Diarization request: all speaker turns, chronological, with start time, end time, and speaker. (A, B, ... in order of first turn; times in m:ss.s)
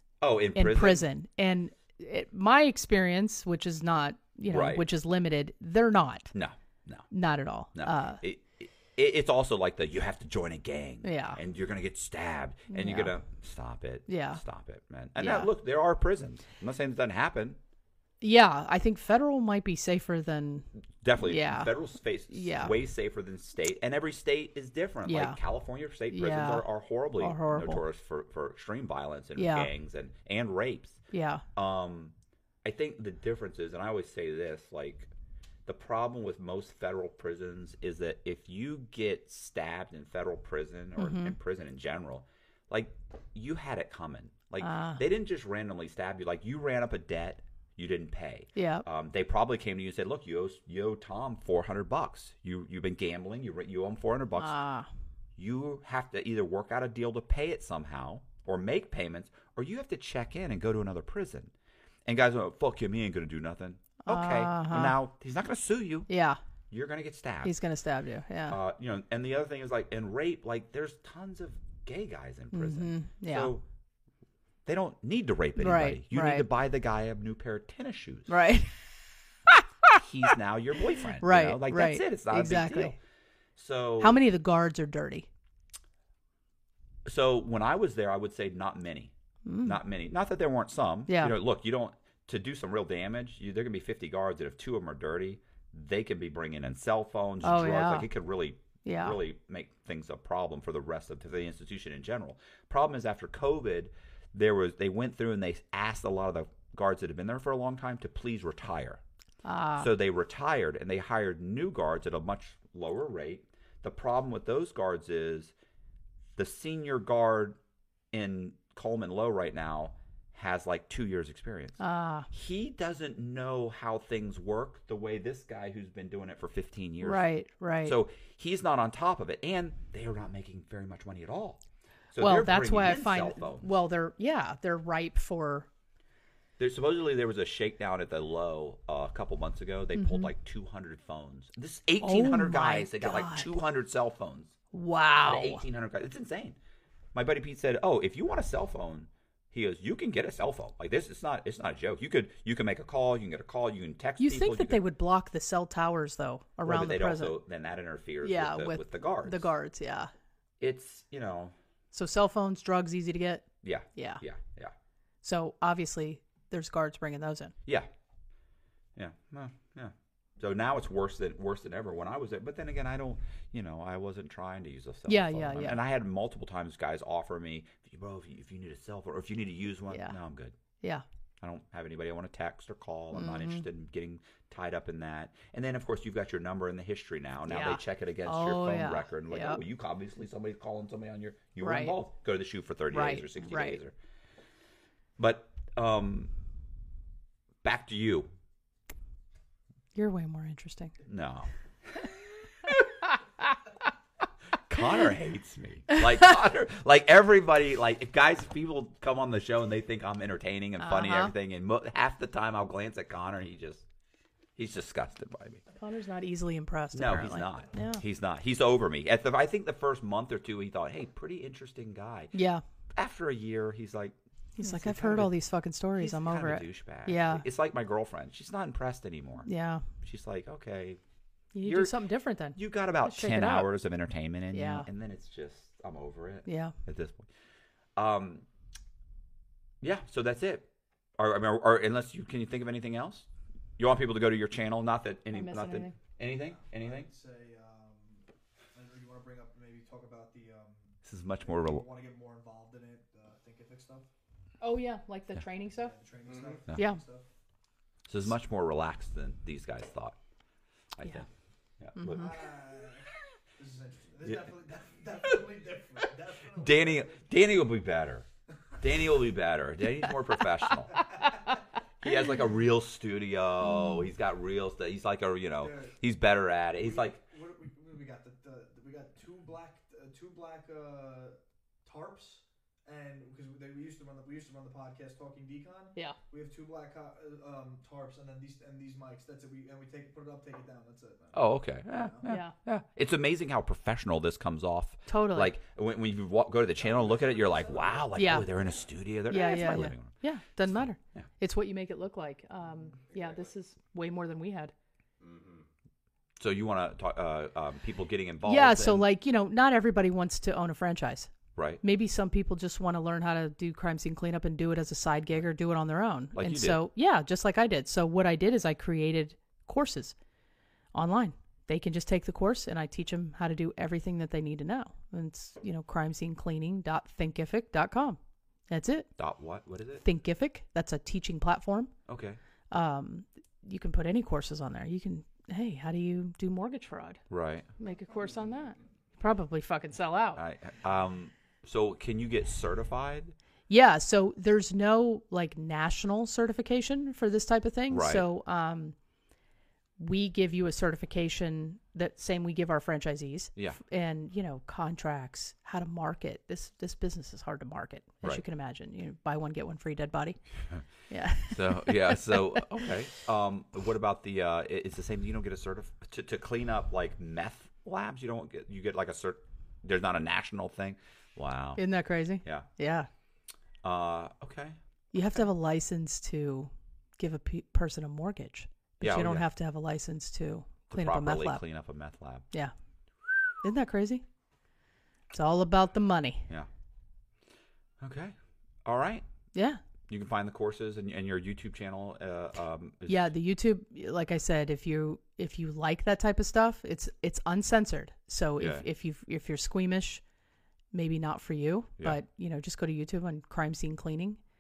0:00.2-0:01.0 A
0:00.5-0:06.3 B
0:04.5-0:04.8 A
0:06.3-0:07.0 A
0:07.1-0:08.2 B
0:07.7-0:17.6 A
0:11.0-0:11.4 B
0:12.7-0:13.1 B
0:14.1-0:14.4 B
0:15.2-0:15.5 B
0:18.2-0:20.7 B
0:21.0-0:31.0 A
0:21.2-0:21.7 B
0:22.3-0:22.8 B
0:25.0-0:25.4 B
0:26.1-0:26.6 B
0:27.2-0:27.8 B
0:29.4-0:29.7 B
0:31.1-0:31.4 B
0:31.5-0:35.1 A
0:35.6-0:54.6 A
0:41.0-0:41.4 B
0:44.6-0:45.0 B
0:48.6-0:48.8 B
0:54.4-0:54.9 B
0:55.4-1:01.5 A
1:02.0-1:06.1 A
1:04.0-1:05.0 B
1:06.1-1:06.4 B
1:06.7-1:07.5 A
1:07.4-1:08.6 B
1:08.5-1:13.6 A
1:12.5-1:13.5 B
1:14.6-1:18.3 A
1:15.6-1:16.4 B
1:18.3-1:18.8 B
1:19.5-1:20.0 B
1:20.0-1:23.0 A
1:21.2-1:22.9 B
1:23.6-1:24.2 A
1:24.0-1:25.3 B
1:27.0-1:49.0 A
1:29.4-1:29.8 B
1:31.1-1:31.3 B
1:37.4-1:38.1 B
1:38.8-1:39.2 B
1:49.4-1:49.9 B
1:49.8-1:55.5 A
1:56.4-1:57.6 A
1:58.1-2:01.8 A
2:01.8-2:02.3 B
2:02.3-2:07.3 A
2:07.0-2:08.0 B
2:07.8-2:11.6 A
2:12.1-2:13.6 A
2:12.2-2:15.7 B
2:16.6-2:24.5 A
2:19.9-2:20.3 B
2:22.0-2:23.5 B
2:24.7-2:25.6 B
2:25.2-2:26.6 A
2:27.1-2:34.8 A
2:34.2-2:37.4 B
2:36.6-2:39.5 A
2:38.2-2:40.1 B
2:40.6-2:41.5 A
2:41.9-2:44.2 B
2:43.6-2:44.7 A
2:45.2-2:47.5 B
2:49.0-3:00.6 A
2:55.1-2:55.8 B
2:59.9-3:00.2 B
3:01.4-3:13.9 A
3:03.1-3:03.6 B
3:07.5-3:09.6 B
3:11.6-3:11.9 B
3:12.9-3:13.8 B
3:15.2-3:16.3 A
3:17.6-3:18.3 A
3:19.9-3:20.9 B
3:21.0-3:22.8 A
3:24.7-3:33.8 A
3:30.8-3:31.3 B
3:34.6-3:35.6 A
3:35.8-3:38.0 B
3:36.9-3:42.3 A
3:42.3-3:42.6 B
3:42.9-3:45.3 A
3:44.6-3:47.4 B
3:46.0-3:49.5 A
3:49.4-3:49.8 B
3:50.0-3:51.0 A
3:51.5-3:53.7 B
3:51.6-3:51.9 A
3:52.5-3:57.3 A
3:54.5-3:54.9 B
3:56.4-3:56.8 B
3:58.0-3:58.4 A
3:59.8-4:00.7 A
4:01.2-4:07.1 A
4:05.3-4:05.9 B
4:06.3-4:14.1 C
4:11.0-4:11.8 A
4:14.6-4:15.9 B
4:15.7-4:17.2 C
4:16.7-4:17.0 B
4:18.1-4:20.2 A
4:21.0-4:21.3 A
4:21.8-4:22.4 A
4:22.0-4:22.2 B
4:22.0-4:27.1 C
4:24.2-4:24.5 A
4:25.2-4:28.3 A
4:28.8-4:31.0 A
4:32.0-4:37.2 A
4:33.6-4:34.1 B
4:35.6-4:35.9 C
4:36.8-4:52.3 C
4:51.3-5:00.1 A
4:52.2-4:52.5 B
4:55.1-4:55.5 B
4:58.1-4:58.5 B
4:59.3-5:04.7 B
5:06.4-5:09.0 A
5:08.4-5:11.3 B
5:11.5-5:11.8 A
5:11.8-5:20.2 B
5:16.3-5:16.8 A
5:20.9-5:28.2 B
5:28.7-5:29.1 B
5:29.2-5:30.0 A
5:30.0-5:31.9 B
5:32.1-5:32.4 A
5:32.7-5:37.2 B
5:37.3-5:37.7 A
5:37.8-5:40.4 B
5:40.4-5:43.3 A
5:43.7-5:49.0 B
5:47.9-5:48.2 A
5:50.0-6:00.4 B
6:01.1-6:02.6 B
6:01.4-6:11.8 A
6:11.8-6:13.1 B
6:12.4-6:12.7 A
6:13.8-6:14.8 A
6:15.1-6:21.6 B
6:19.0-6:19.4 A
6:20.9-6:22.5 A
6:23.6-6:24.2 B
6:25.3-6:26.5 B
6:28.0-6:28.3 A
6:28.8-6:29.2 A
6:29.5-6:29.8 B
6:30.1-6:33.3 A
6:33.1-6:40.2 B
6:38.6-6:38.8 A
6:40.9-6:44.4 B